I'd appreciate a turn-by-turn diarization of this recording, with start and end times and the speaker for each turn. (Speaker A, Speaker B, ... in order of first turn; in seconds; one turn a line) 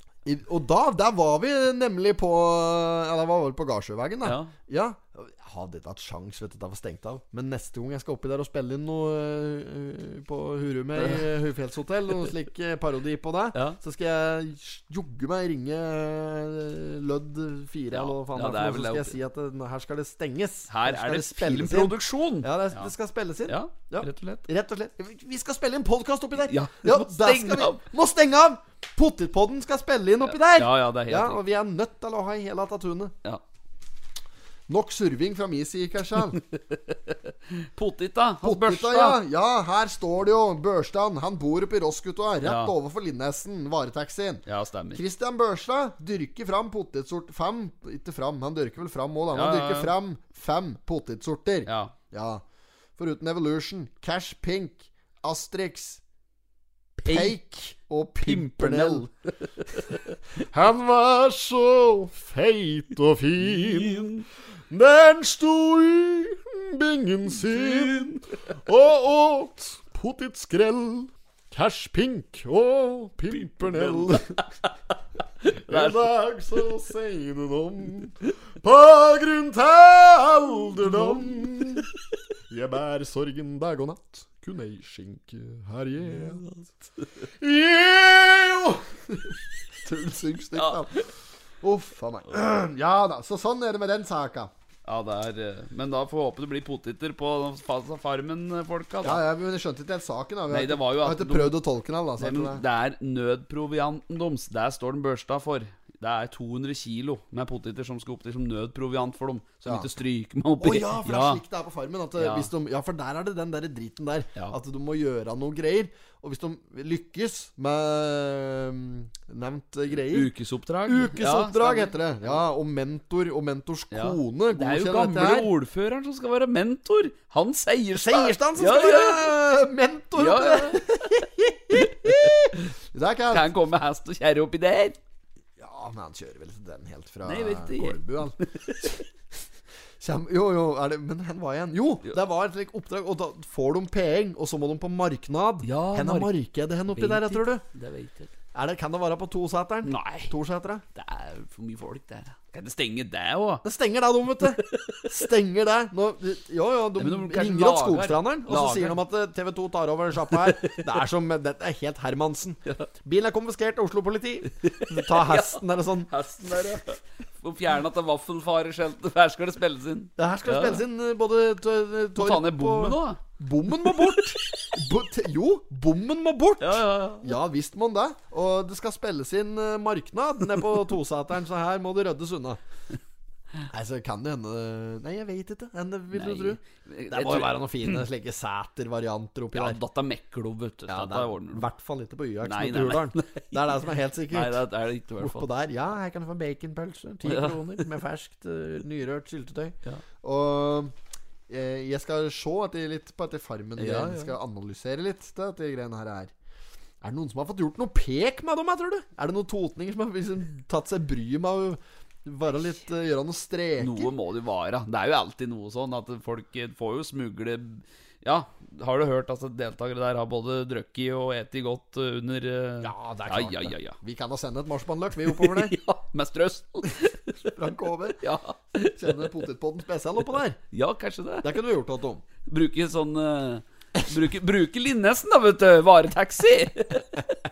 Speaker A: 0.2-33.1
Speaker B: 4.2-4.5
Speaker B: 10.9-11.2
Speaker B: 17.9-19.1
Speaker B: 20.7-22.9
Speaker B: 23.5-24.4
Speaker B: 26.4-27.8
Speaker B: 30.2-31.4
Speaker A: 34.7-36.4
Speaker B: 36.7-39.2
Speaker A: 38.4-52.4
Speaker B: 42.4-42.7
Speaker B: 44.5-45.0
Speaker B: 49.3-49.9
Speaker B: 51.7-51.9
Speaker A: 53.0-56.0
Speaker A: 57.0-59.1
Speaker B: 57.0-57.4
Speaker B: 58.2-59.0
Speaker B: 59.7-60.0
Speaker A: 60.4-74.4
Speaker B: 63.4-64.2
Speaker B: 67.5-68.2
Speaker B: 73.3-74.7
Speaker B: 75.4-76.1
Speaker A: 75.6-81.9
Speaker B: 80.8-81.8
Speaker A: 82.5-86.5
Speaker A: 87.2-91.1
Speaker B: 90.5-90.8
Speaker A: 91.6-94.5
Speaker B: 94.8-99.2
Speaker A: 99.0-102.6
Speaker B: 100.5-101.5
Speaker B: 102.2-111.4
Speaker A: 109.6-109.9
Speaker A: 110.6-120.3
Speaker B: 112.2-112.5
Speaker B: 119.9-122.0
Speaker A: 120.8-125.5
Speaker B: 123.9-129.4
Speaker A: 127.9-133.5
Speaker B: 130.1-130.8
Speaker B: 131.7-132.4
Speaker B: 133.3-135.0
Speaker A: 135.6-139.0
Speaker B: 137.2-139.0
Speaker A: 140.0-147.6
Speaker B: 145.6-146.3
Speaker B: 146.9-148.3
Speaker A: 148.5-150.8
Speaker B: 149.8-150.3
Speaker B: 150.9-153.6
Speaker A: 153.6-166.8
Speaker B: 154.6-155.1
Speaker B: 157.0-159.0
Speaker B: 160.4-160.8
Speaker B: 164.6-170.8
Speaker A: 170.2-182.6
Speaker B: 172.2-173.2
Speaker B: 173.8-174.2
Speaker B: 176.6-177.3
Speaker A: 183.7-189.8
Speaker B: 186.1-188.0
Speaker B: 189.5-191.7
Speaker A: 190.9-194.6
Speaker B: 192.4-193.5
Speaker B: 194.3-195.5
Speaker A: 195.2-200.9
Speaker B: 197.2-197.6
Speaker A: 201.5-206.3
Speaker B: 203.8-204.3
Speaker A: 207.0-214.1
Speaker B: 213.8-224.0
Speaker A: 222.8-225.8
Speaker B: 225.3-227.5
Speaker A: 227.5-228.2
Speaker B: 228.2-229.3
Speaker A: 228.7-230.6
Speaker B: 230.7-231.5
Speaker A: 231.4-232.2
Speaker B: 232.4-237.3